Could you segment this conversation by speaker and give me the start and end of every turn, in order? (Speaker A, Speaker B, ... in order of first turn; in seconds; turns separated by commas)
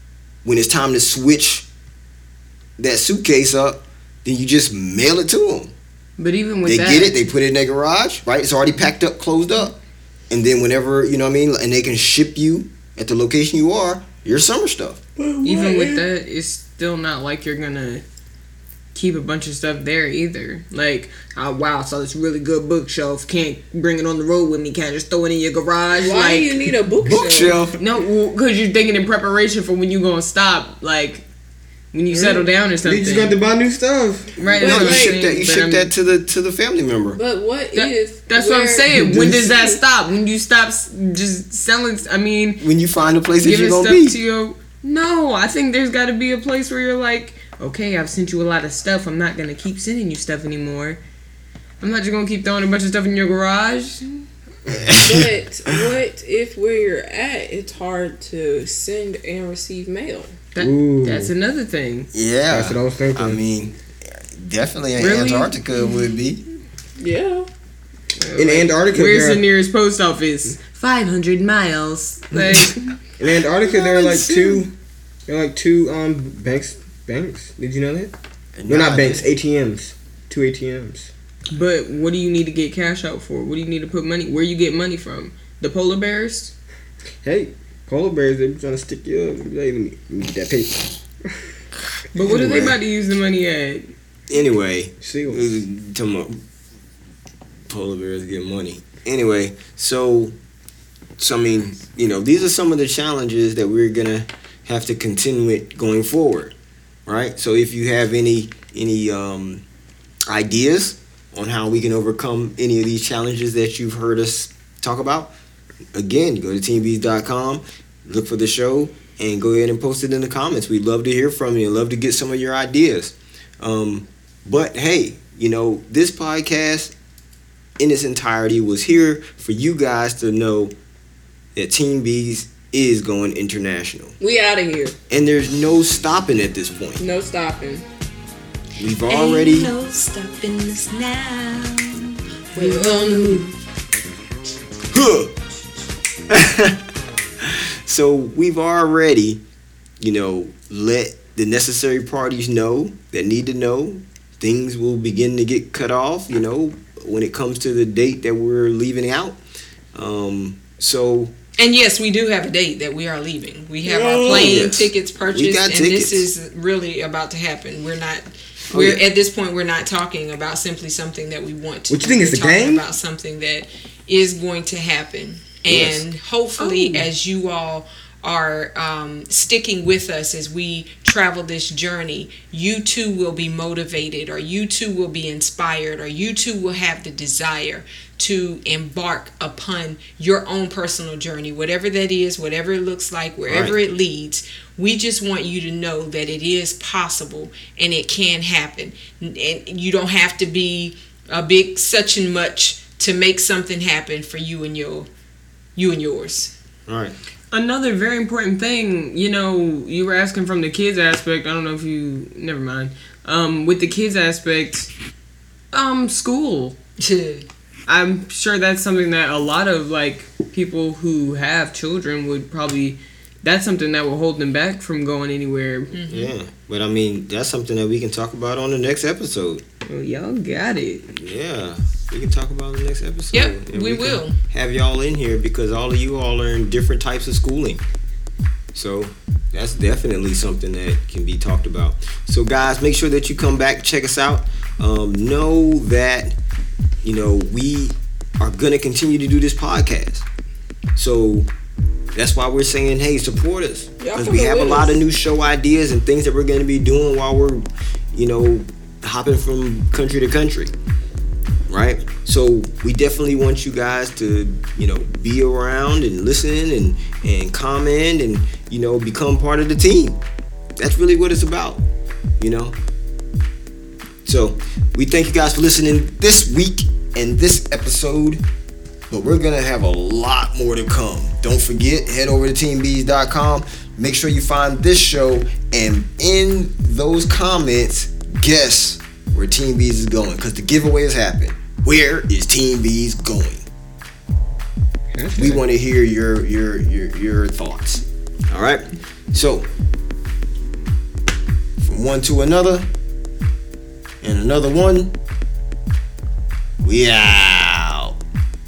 Speaker A: 0.4-1.7, Speaker A: 2.8-5.7, Speaker B: 6.2-7.1, Speaker A: 6.6-9.8, Speaker A: 10.3-15.0, Speaker C: 15.2-16.0, Speaker B: 15.4-18.0, Speaker B: 18.9-26.7, Speaker D: 26.0-27.6, Speaker A: 27.0-27.8, Speaker B: 27.8-31.2, Speaker B: 31.9-33.4, Speaker C: 32.1-34.3, Speaker B: 34.4-35.9, Speaker D: 34.6-35.2, Speaker A: 34.6-37.2, Speaker D: 37.1-39.8, Speaker B: 37.7-42.6, Speaker C: 38.9-39.7, Speaker A: 42.6-44.2, Speaker B: 43.4-51.0, Speaker B: 51.8-54.2, Speaker A: 54.7-55.9, Speaker D: 54.9-60.4, Speaker B: 60.5-62.1, Speaker C: 60.6-61.3, Speaker A: 62.1-66.4, Speaker C: 62.5-63.4, Speaker B: 65.0-65.5, Speaker D: 67.0-67.5, Speaker B: 68.2-73.0, Speaker C: 68.3-69.5, Speaker C: 73.2-74.7, Speaker B: 73.7-74.6, Speaker C: 75.3-78.1, Speaker A: 78.5-79.3, Speaker C: 78.7-81.1, Speaker B: 81.5-86.5, Speaker C: 87.2-91.0, Speaker B: 92.1-93.9, Speaker A: 92.2-92.8, Speaker A: 94.3-96.4, Speaker C: 95.0-95.6, Speaker A: 97.7-100.3, Speaker A: 101.2-106.5, Speaker A: 107.0-109.6, Speaker A: 110.3-115.3, Speaker A: 115.9-126.9, Speaker A: 127.8-130.7, Speaker A: 131.5-134.2, Speaker D: 134.2-134.9, Speaker A: 135.1-137.0, Speaker D: 137.0-137.8, Speaker A: 138.8-139.7, Speaker E: 139.1-143.6, Speaker D: 142.5-143.5, Speaker A: 144.9-145.3, Speaker A: 146.3-146.8, Speaker A: 147.4-149.4, Speaker A: 150.0-159.4, Speaker A: 159.9-161.3, Speaker E: 161.6-205.1, Speaker C: 163.9-164.7, Speaker A: 164.2-166.3, Speaker A: 168.7-169.0, Speaker C: 171.9-172.8, Speaker A: 175.7-176.0, Speaker A: 193.5-193.8, Speaker E: 205.8-206.5, Speaker A: 206.9-207.2, Speaker B: 207.5-214.9, Speaker B: 215.7-216.8, Speaker E: 217.0-217.5, Speaker B: 217.9-226.0, Speaker E: 225.9-226.3, Speaker A: 226.1-229.6, Speaker B: 229.8-231.1, Speaker A: 231.1-237.8, Speaker E: 233.3-234.4, Speaker A: 238.7-246.3, Speaker A: 247.0-250.2, Speaker A: 250.9-251.5, Speaker A: 252.1-260.7, Speaker D: 254.0-255.0, Speaker A: 261.7-270.2, Speaker A: 270.8-271.8, Speaker A: 272.4-272.8, Speaker A: 274.2-278.4, Speaker A: 279.1-293.7, Speaker C: 295.1-295.6, Speaker A: 295.4-299.7, Speaker A: 301.8-302.9, Speaker A: 304.2-305.1, Speaker A: 306.8-308.2